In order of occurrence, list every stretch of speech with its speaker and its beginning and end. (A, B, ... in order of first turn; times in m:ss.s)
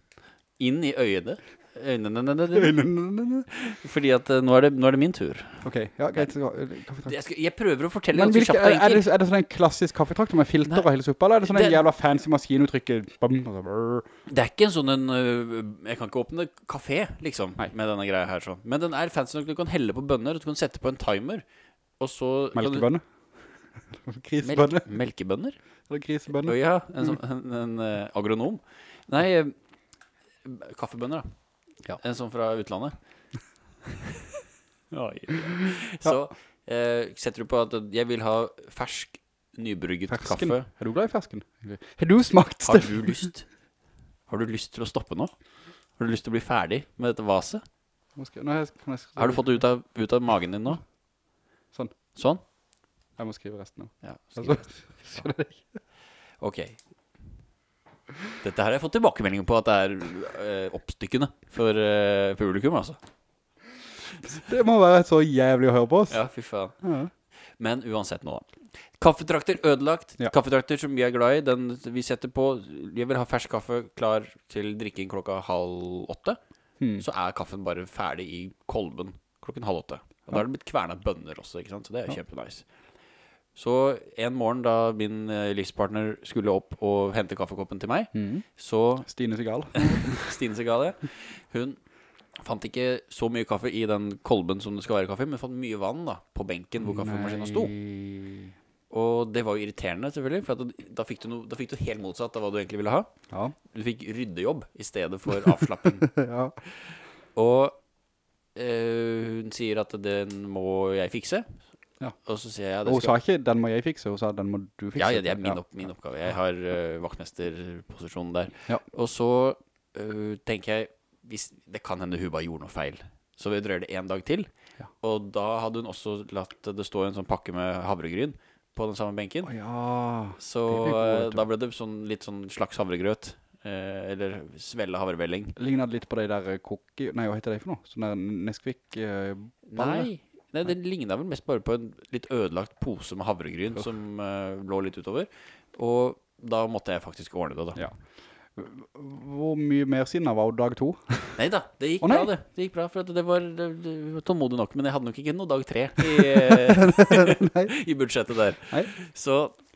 0:00.6-0:02.8 A
0:02.5-0:03.5 B
0:03.5-0:05.6 A
0:05.6-0:07.1 B
0:07.0-0:09.1 A
0:08.1-0:14.1 B
0:11.4-0:11.8 A
0:14.3-0:21.4 A
0:22.0-0:22.9 A
0:22.6-0:23.0 B
0:23.9-0:24.9 B
0:24.4-0:25.6 A
0:25.9-0:27.2 B
0:26.3-0:29.6 A
0:30.4-0:31.3 A
0:32.0-0:33.0 A
0:34.9-0:40.7 A
0:40.1-0:43.3 B
0:42.6-0:43.5 A
0:44.3-0:45.3 A
0:46.0-0:47.6 A
0:48.2-0:49.6 B
0:49.2-0:50.8 A
0:52.2-0:52.4 A
0:53.2-0:55.7 B
0:54.0-0:54.7 A
0:56.4-0:56.8 A
0:58.4-1:03.0 A
1:04.2-1:06.2 B
1:06.1-1:06.8 A
1:06.8-1:07.1 B
1:07.6-1:16.4 A
1:17.0-1:22.6 A
1:23.6-1:29.1 A
1:28.1-1:28.4 B
1:29.1-1:30.2 B
1:29.7-1:31.8 A
1:32.4-1:37.7 A
1:36.8-1:38.5 B
1:38.9-1:43.1 A
1:43.7-1:46.1 A
1:45.4-1:46.6 B
1:47.4-1:47.8 A
1:48.6-1:51.6 A
1:52.2-1:53.2 A
1:52.8-1:55.6 B
1:55.0-2:04.5 A
2:05.0-2:09.5 A
2:09.4-2:11.4 B
2:10.4-2:15.6 A
2:15.6-2:20.1 B
2:19.7-2:27.8 A
2:28.6-2:31.4 B
2:31.4-2:39.6 A
2:32.0-2:32.3 B
2:36.0-2:37.7 B